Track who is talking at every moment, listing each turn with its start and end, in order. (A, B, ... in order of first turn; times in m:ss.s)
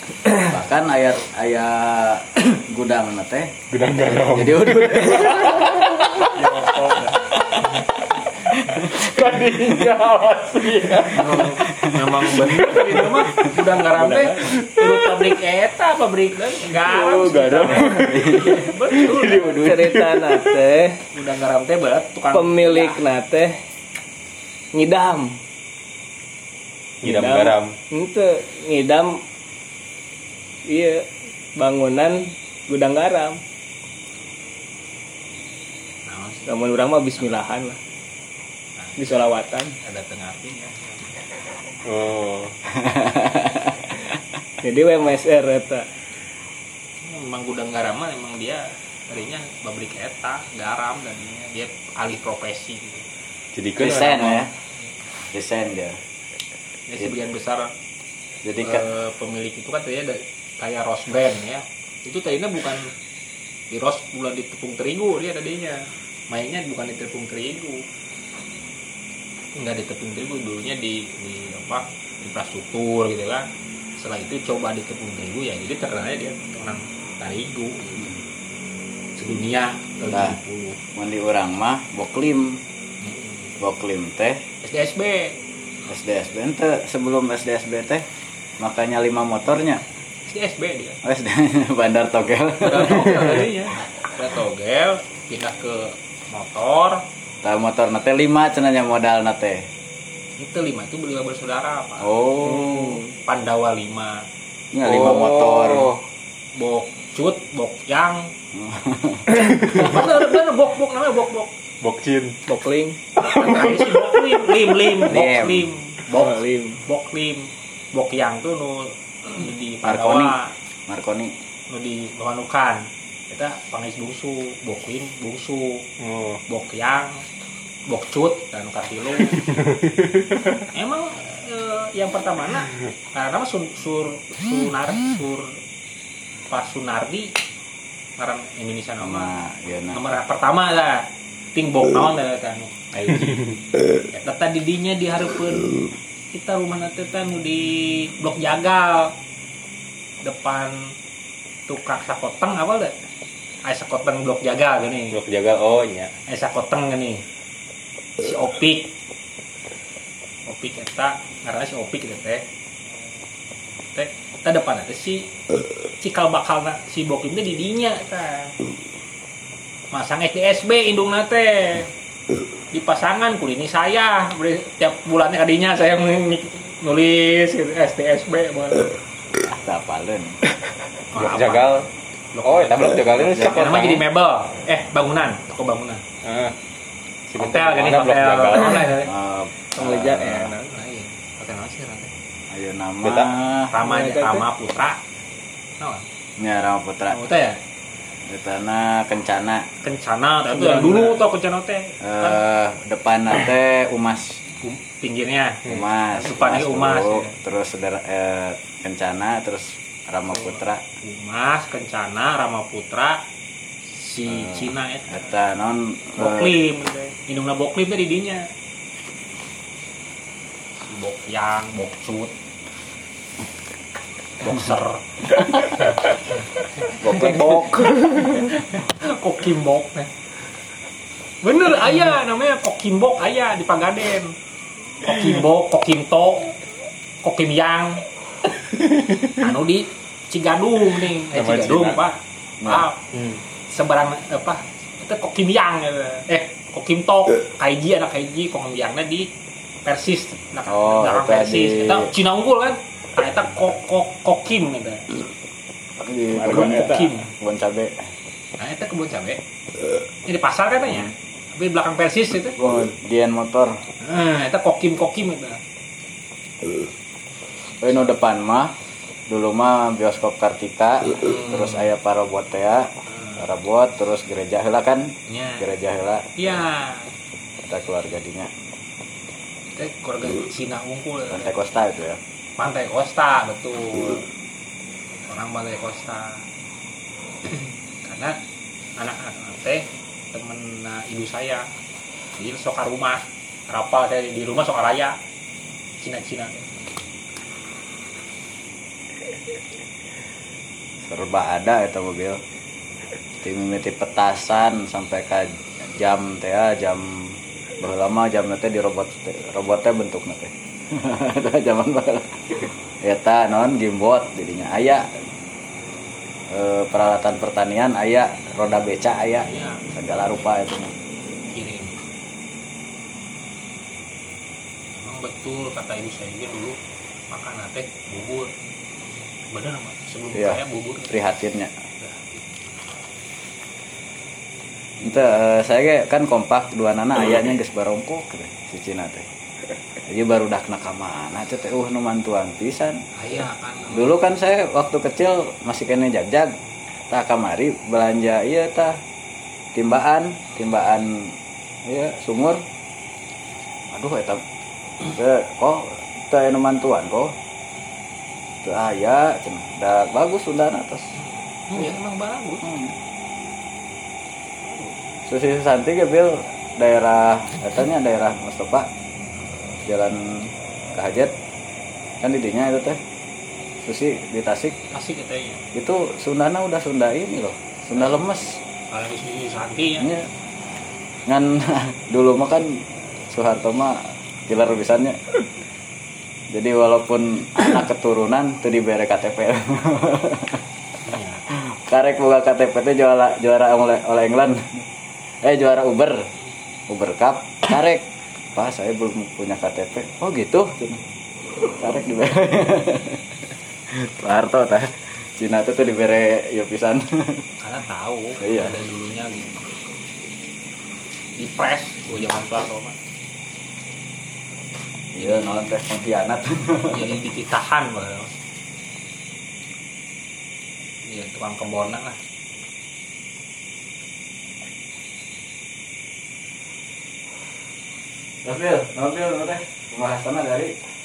0:00.4-0:03.5 A
0:03.7-0:07.8 B
0:04.3-0:06.0 A
0:06.4-0:07.0 C
0:08.4-0:13.5 B
0:11.1-0:12.4 A
0:11.2-0:19.6 C
0:13.9-0:14.6 D
0:16.8-0:20.6 B
0:17.7-0:18.0 D
0:17.9-0:18.7 A
0:19.4-0:21.0 D
0:21.1-0:23.0 C
0:22.3-0:23.6 D
0:24.7-0:25.4 D
0:27.0-0:29.2 D
0:27.0-0:27.7 B
0:30.7-0:33.4 D
0:36.0-0:37.4 C
0:36.5-0:37.8 D
0:38.8-0:39.3 C
0:39.0-0:39.8 D
0:39.8-0:41.0 C
0:41.8-0:42.6 B
0:42.7-0:43.9 A
0:44.6-0:45.9 D
0:47.0-0:53.1 C
0:53.5-0:54.5 B
0:53.8-0:54.5 A
0:55.3-0:56.0 A
0:56.9-0:57.7 C
0:58.4-0:58.8 A
0:58.6-1:02.9 C
1:03.7-1:07.8 C
1:09.5-1:13.5 C
1:14.0-1:18.1 C
1:19.2-1:20.8 C
1:20.1-1:20.4 A
1:20.9-1:22.6 A
1:23.0-1:23.5 C
1:23.6-1:24.4 A
1:24.6-1:25.3 C
1:25.9-1:28.0 A
1:28.6-1:29.8 A
1:30.2-1:31.0 C
1:31.0-1:33.4 A
1:32.6-1:37.0 C
1:37.4-1:39.6 A
1:40.4-1:42.1 C
1:42.0-1:43.0 A
1:42.4-1:43.1 D
1:43.2-1:44.2 C
1:44.7-1:45.9 A
1:44.8-1:45.9 B
1:46.6-1:48.3 C
1:48.5-1:49.3 A
1:49.5-1:49.8 B
1:49.6-1:51.5 C
1:51.8-1:52.4 B
1:52.5-1:53.3 D
1:53.2-1:54.5 B
1:53.2-2:00.5 C
1:55.1-1:55.6 A
1:56.1-1:56.8 D
1:59.8-2:00.3 A
2:00.9-2:01.3 A
2:01.7-2:05.8 C
2:06.0-2:06.4 B
2:06.5-2:07.2 C
2:07.9-2:09.4 C
2:09.3-2:10.6 B
2:10.7-2:15.5 C
2:16.5-2:17.3 C
2:18.2-2:19.3 C
2:19.0-2:20.0 A
2:19.9-2:23.5 C
2:24.1-2:25.7 C
2:26.3-2:29.1 C
2:30.2-2:30.7 C
2:31.7-2:32.9 C
2:33.6-2:35.2 C
2:35.1-2:36.1 B
2:36.3-2:37.2 C
2:38.2-2:38.9 C
2:40.5-2:42.4 C
2:43.9-2:45.3 C
2:46.0-2:48.5 C
2:49.9-2:51.9 C
2:52.7-2:58.9 C
2:59.4-3:00.4 A
3:01.1-3:01.7 C
3:01.1-3:01.8 B
3:02.3-3:06.0 C
3:02.4-3:04.0 B
3:06.2-3:06.5 B
3:07.3-3:08.9 B
3:07.4-3:09.1 C
3:09.0-3:10.5 A
3:09.8-3:10.6 D
3:10.6-3:12.1 C
3:12.5-3:13.7 A
3:13.0-3:13.3 B
3:13.7-3:15.0 C
3:13.8-3:14.4 D
3:15.8-3:16.0 C
3:16.4-3:17.2 A
3:17.1-3:17.6 C
3:18.2-3:19.7 A
3:19.8-3:22.4 C
3:20.5-3:21.2 D
3:22.0-3:24.4 A
3:24.6-3:25.6 C
3:25.6-3:30.8 A
3:26.1-3:27.3 C
3:30.3-3:33.2 C
3:33.9-3:35.2 C
3:34.3-3:36.6 A
3:36.2-3:38.4 C
3:40.8-3:42.3 C
3:44.4-3:45.4 C
3:47.0-3:47.9 A
3:47.1-3:48.3 D
3:48.8-3:50.1 C
3:51.4-3:54.3 C
3:55.0-3:56.6 C
3:57.2-3:58.0 C
3:58.7-3:59.4 B
3:59.4-4:03.0 C
4:01.3-4:02.0 B
4:02.6-4:02.9 A
4:03.1-4:03.4 B
4:03.7-4:09.3 C
4:09.8-4:15.0 C
4:10.7-4:12.1 A
4:16.0-4:18.0 A
4:16.3-4:17.1 D
4:16.4-4:17.3 C
4:18.6-4:19.4 C
4:20.2-4:22.6 C
4:22.6-4:23.8 A
4:24.0-4:25.6 C
4:27.8-4:28.7 A
4:29.3-4:36.5 A
4:31.2-4:31.9 C
4:33.1-4:33.5 C
4:35.3-4:35.7 C
4:36.4-4:37.1 C
4:37.6-4:38.5 A
4:39.7-4:41.5 C
4:41.3-4:42.2 A
4:42.6-4:44.2 C
4:45.2-4:46.4 C
4:47.5-4:48.3 C
4:49.0-4:51.6 C
4:52.4-4:55.1 C
4:56.0-4:56.7 C
5:01.0-5:02.4 A
5:03.4-5:15.1 A
5:16.5-5:20.9 A
5:19.4-5:19.8 C
5:21.5-5:22.0 C
5:25.0-5:26.8 C
5:27.3-5:28.5 C
5:29.5-5:31.2 C
5:30.3-5:31.7 A
5:32.0-5:32.8 C
5:35.0-5:39.3 A
5:40.0-5:43.0 A
5:43.2-5:44.1 C
5:43.9-5:46.6 A
5:47.1-5:49.0 A
5:49.7-5:51.3 A
5:51.8-5:52.6 A
5:53.9-5:54.4 A
5:55.0-5:57.3 A
5:58.6-6:01.1 A
6:01.2-6:02.6 C
6:02.6-6:02.9 A
6:04.6-6:04.9 C
6:05.2-6:08.9 A
6:09.8-6:11.3 A
6:12.2-6:13.0 A
6:13.8-6:14.7 A
6:14.9-6:15.6 C
6:15.7-6:18.6 A
6:18.9-6:20.1 C
6:20.0-6:20.3 A
6:21.3-6:25.2 A
6:26.5-6:30.6 A
6:31.0-6:31.4 C
6:31.5-6:34.6 A
6:35.4-6:36.2 A
6:36.9-6:41.0 A
6:41.6-6:43.2 A
6:43.9-6:47.4 A
6:47.6-6:49.7 C
6:48.4-6:48.7 A
6:51.4-6:53.0 C
6:55.1-6:57.0 A
6:55.2-6:55.6 C
6:56.9-6:58.3 C
7:01.0-7:02.2 C
7:08.4-7:10.7 A